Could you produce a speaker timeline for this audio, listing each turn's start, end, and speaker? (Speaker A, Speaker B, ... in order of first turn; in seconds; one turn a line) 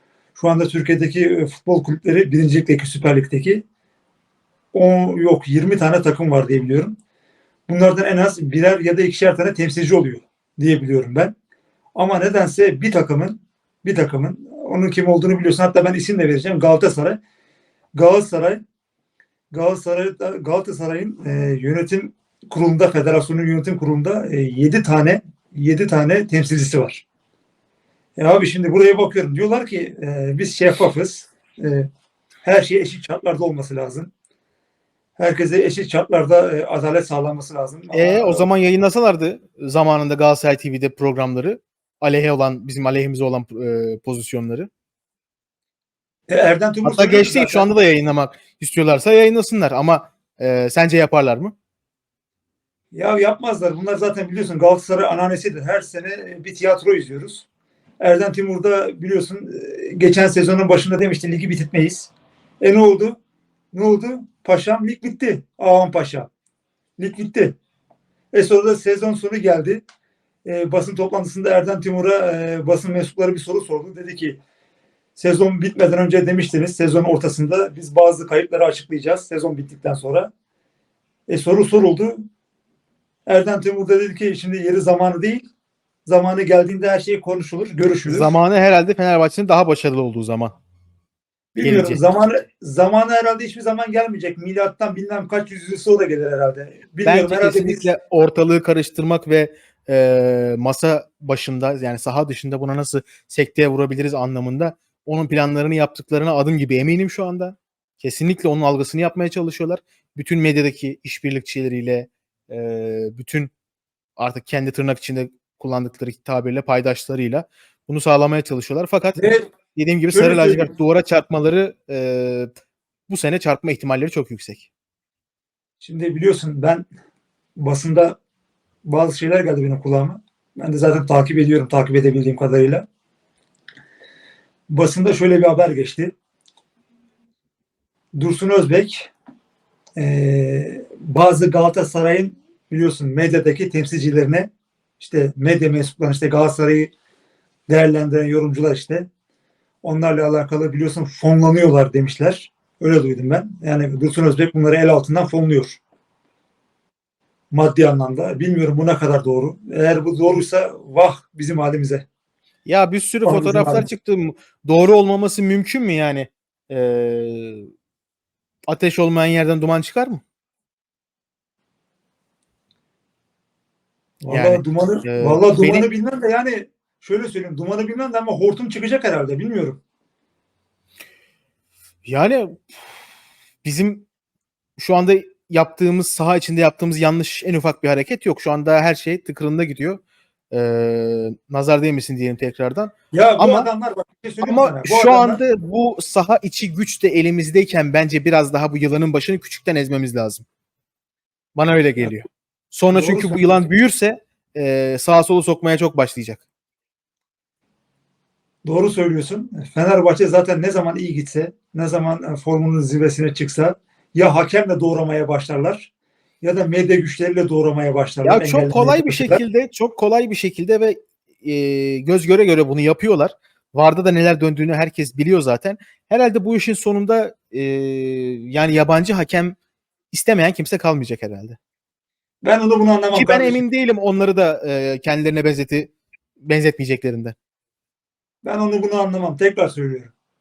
Speaker A: 0.3-3.6
Speaker A: 4.7-7.0
Speaker A: 7.7-11.3
Speaker A: 11.9-17.2
Speaker A: 17.9-18.6
Speaker A: 19.5-27.1
Speaker A: 28.1-31.9
Speaker A: 32.4-34.1
Speaker A: 35.2-38.5
Speaker B: 37.9-44.7
Speaker A: 46.3-47.7
Speaker B: 46.8-51.5
Speaker A: 52.9-57.5
Speaker A: 58.0-63.2
Speaker A: 63.7-66.3
Speaker A: 67.0-67.6
Speaker A: 68.3-69.8
Speaker A: 70.4-74.4
Speaker A: 75.2-80.3
Speaker A: 81.3-82.3
Speaker A: 83.2-85.5
Speaker A: 86.0-88.3
Speaker B: 88.0-90.5
Speaker A: 91.5-97.9
Speaker B: 91.6-92.0
Speaker B: 97.0-113.5
Speaker B: 114.2-122.5
Speaker A: 119.1-119.5
Speaker A: 120.1-120.7
Speaker B: 123.1-124.7
Speaker A: 125.8-126.9
Speaker A: 127.6-128.2
Speaker A: 128.8-132.8
Speaker A: 134.7-136.1
Speaker A: 138.1-139.1
Speaker A: 139.9-146.9
Speaker A: 147.7-149.1
Speaker A: 149.8-155.8
Speaker A: 157.5-162.1
Speaker B: 162.7-167.7
Speaker A: 163.2-163.9
Speaker B: 168.7-170.2
Speaker A: 174.2-179.8
Speaker B: 174.3-175.9
Speaker B: 182.0-182.9
Speaker B: 183.6-184.1
Speaker B: 184.8-190.0
Speaker B: 190.5-193.7
Speaker A: 193.1-195.4
Speaker B: 194.4-200.4
Speaker B: 201.6-206.4
Speaker A: 202.9-203.7
Speaker A: 208.6-219.4
Speaker B: 218.2-229.6
Speaker B: 230.1-231.6
Speaker A: 232.4-233.6
Speaker B: 233.1-237.3
Speaker A: 238.4-240.1